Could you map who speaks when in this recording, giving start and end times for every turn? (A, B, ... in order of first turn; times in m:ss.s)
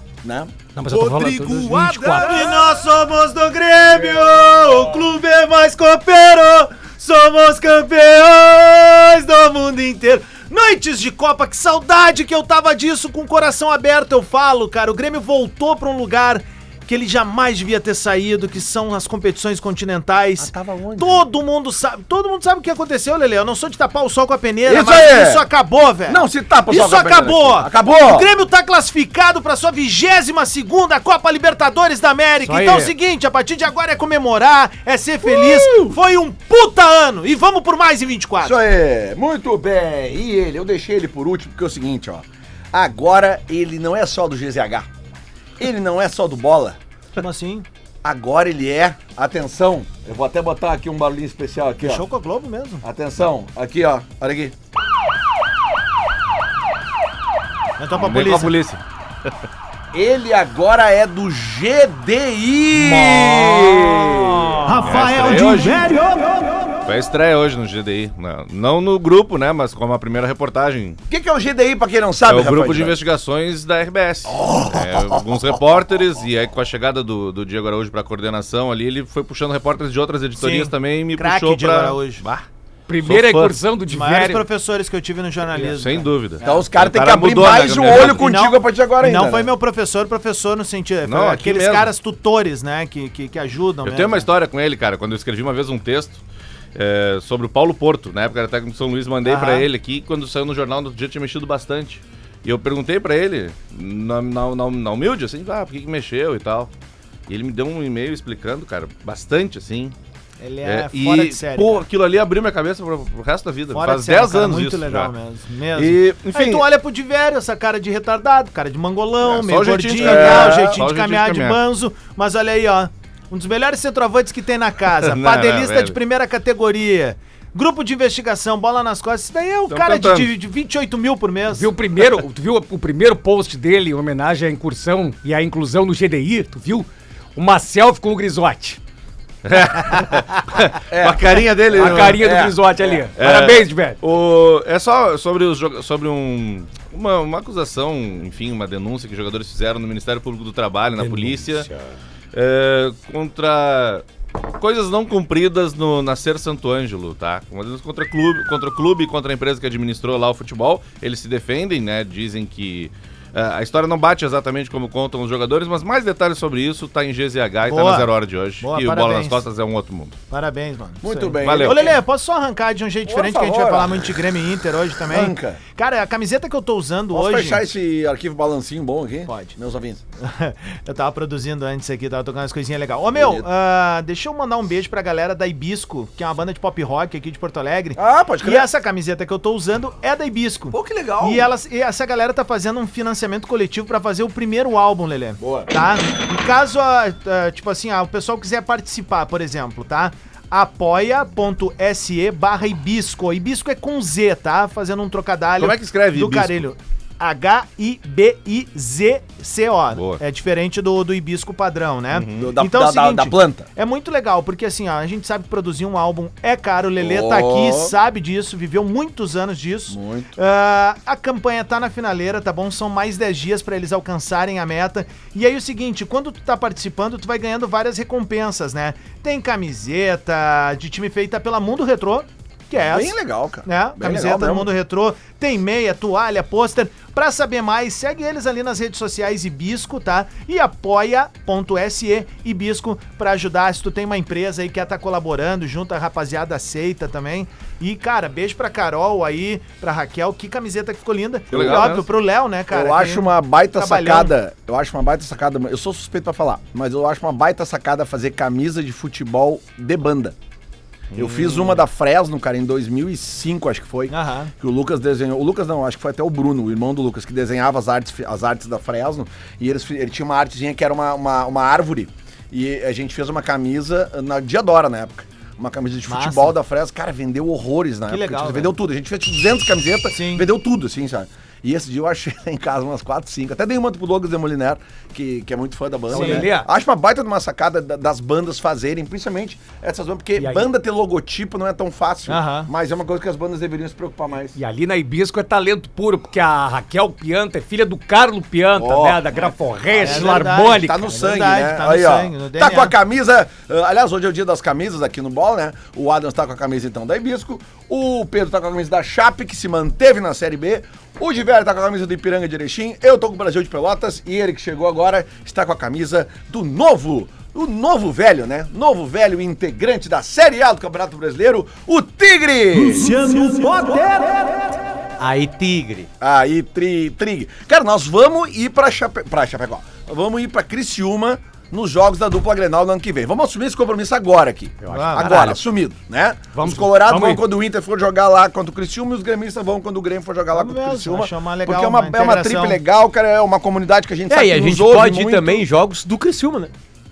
0:00.2-0:02.8 A
0:00.7-0:02.5 B
0:02.2-0:38.6 C
0:20.4-0:21.2 A
0:24.6-0:25.4 A
0:26.1-0:28.3 A
0:32.4-0:32.9 B
0:35.2-0:36.0 A
0:38.4-0:44.9 A
0:45.6-0:46.8 A
0:47.2-0:47.7 C
0:48.0-0:52.0 A
0:51.8-0:52.8 C
0:52.8-0:54.5 A
0:57.8-0:58.5 C
0:57.9-0:59.3 D
0:59.9-1:04.8 A
1:02.8-1:04.2 B
1:04.6-1:06.7 C
1:04.8-1:05.8 D
1:06.8-1:11.0 D
1:11.1-1:13.0 A
1:12.2-1:22.4 D
1:14.2-1:15.6 A
1:20.4-1:22.2 C
1:22.9-1:24.4 B
1:23.0-1:23.5 D
1:23.9-1:26.7 C
1:25.5-1:28.3 D
1:26.4-1:29.5 A
1:27.8-1:34.3 C
1:31.0-1:31.9 D
1:33.8-1:36.2 D
1:36.7-1:46.7 D
1:39.2-1:39.7 C
1:47.3-1:49.9 D
1:50.4-1:51.8 C
1:50.6-1:55.1 D
1:53.7-2:11.7 C
1:55.7-1:56.6 D
1:59.2-2:01.6 D
2:00.0-2:00.8 A
2:05.0-2:06.0 D
2:09.7-2:10.3 D
2:11.5-2:18.8 B
2:19.4-2:22.2 D
2:20.9-2:23.0 A
2:21.7-2:24.0 B
2:23.2-2:31.7 D
2:32.3-2:34.0 D
2:34.6-2:50.2 D
2:47.6-2:49.4 C
2:50.3-2:57.6 C
2:51.0-2:52.0 A
2:51.4-2:51.8 D
2:53.0-2:54.1 A
2:55.1-2:55.6 A
2:57.1-3:00.0 A
2:59.3-2:59.5 C
3:00.2-4:14.3 C
3:03.1-3:03.5 A
3:08.0-3:08.7 A
3:10.7-3:11.5 A
3:15.4-3:15.7 A
3:25.6-3:26.6 D
3:29.9-3:30.2 D
3:32.1-3:32.5 D
3:32.4-3:33.7 A
3:37.0-3:38.0 A
3:39.9-3:40.3 A
3:52.8-3:54.7 A
4:11.5-4:12.0 A
4:11.5-4:12.1 D
4:12.7-4:20.3 A
4:21.1-4:21.8 D
4:21.1-4:54.6 A
4:24.1-4:24.5 C
4:36.0-4:36.5 C
4:38.1-4:38.7 C
4:40.1-4:40.4 C
4:46.1-4:46.7 B
4:46.1-4:46.5 C
4:50.4-4:50.7 B
4:52.3-4:52.7 C
4:54.6-5:01.0 B
4:58.8-5:23.2 A
5:00.0-5:02.9 C
5:22.7-5:24.7 C
5:25.2-5:26.1 E
5:26.2-5:45.6 A
5:34.8-5:35.6 B
5:34.9-5:35.5 C
5:36.5-5:37.4 B
5:40.5-5:42.8 C
5:44.3-5:46.7 E